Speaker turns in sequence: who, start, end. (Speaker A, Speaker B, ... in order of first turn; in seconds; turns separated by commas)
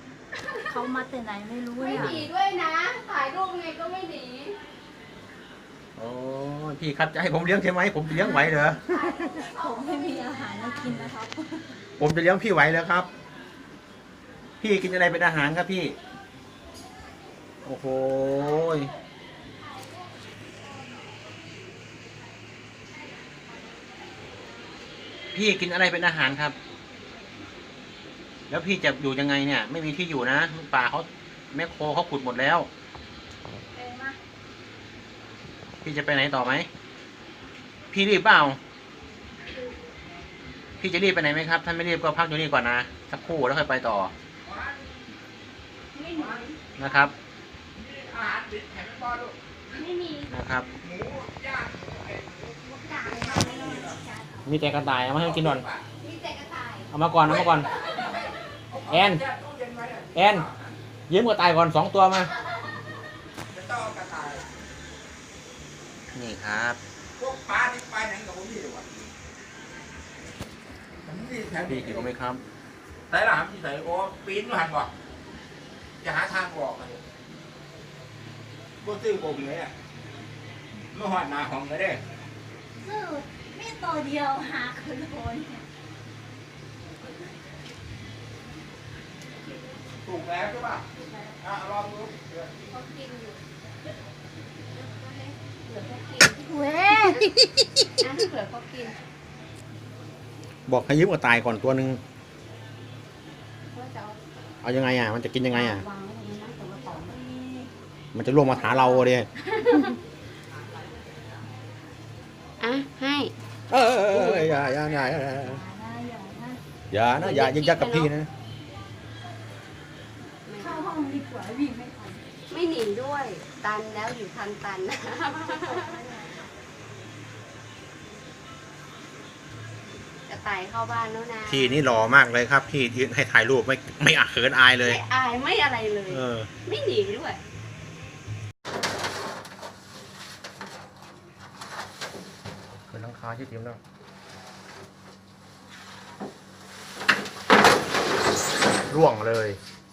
Speaker A: 0.4-0.8, Speaker B: 0.6-2.3, Speaker A: 1.8-4.6, Speaker C: 6.0-9.2, Speaker B: 8.1-8.6, Speaker A: 8.8-10.9, Speaker B: 9.2-11.8, Speaker C: 10.8-11.1, Speaker C: 12.0-13.1, Speaker C: 14.6-15.9, Speaker C: 17.6-18.9, Speaker C: 25.3-26.6, Speaker B: 27.0-27.3, Speaker C: 28.5-32.7, Speaker B: 33.7-34.2, Speaker C: 35.8-36.7, Speaker C: 37.9-38.6, Speaker C: 40.8-44.1, Speaker D: 44.4-45.0, Speaker A: 45.9-47.0, Speaker D: 46.1-46.4, Speaker C: 46.8-47.1, Speaker D: 47.8-49.4, Speaker A: 49.7-50.3, Speaker C: 50.3-50.7, Speaker D: 50.8-54.0, Speaker A: 52.7-53.8, Speaker B: 52.9-54.4, Speaker C: 54.5-55.6, Speaker D: 55.1-55.9, Speaker A: 56.0-58.3, Speaker C: 56.9-57.7, Speaker D: 57.3-60.7, Speaker C: 58.9-59.2, Speaker C: 60.1-60.5, Speaker C: 61.1-62.3, Speaker D: 63.5-64.5, Speaker C: 66.1-66.8, Speaker D: 67.2-68.9, Speaker D: 71.0-72.1, Speaker C: 71.6-72.4, Speaker D: 73.1-74.9, Speaker D: 76.0-77.0, Speaker D: 78.8-79.7, Speaker D: 80.9-82.0, Speaker B: 82.8-85.6, Speaker A: 89.4-89.8, Speaker D: 90.0-92.6, Speaker A: 92.7-93.4, Speaker A: 94.7-97.2, Speaker B: 96.4-97.3, Speaker A: 98.0-98.9, Speaker C: 100.7-102.0, Speaker A: 103.7-104.2, Speaker C: 104.6-105.8, Speaker A: 105.5-107.2, Speaker B: 106.7-107.7, Speaker C: 108.1-109.3, Speaker A: 108.6-110.0, Speaker A: 112.6-113.3, Speaker C: 113.7-115.6, Speaker B: 114.1-116.6, Speaker C: 116.9-118.3, Speaker A: 117.2-118.1, Speaker A: 120.4-121.0, Speaker B: 120.5-122.2, Speaker A: 122.5-126.0, Speaker B: 125.4-126.5, Speaker A: 130.3-131.8, Speaker C: 131.5-135.0, Speaker A: 134.8-137.4, Speaker C: 136.1-136.5, Speaker C: 142.8-143.8, Speaker C: 148.9-149.6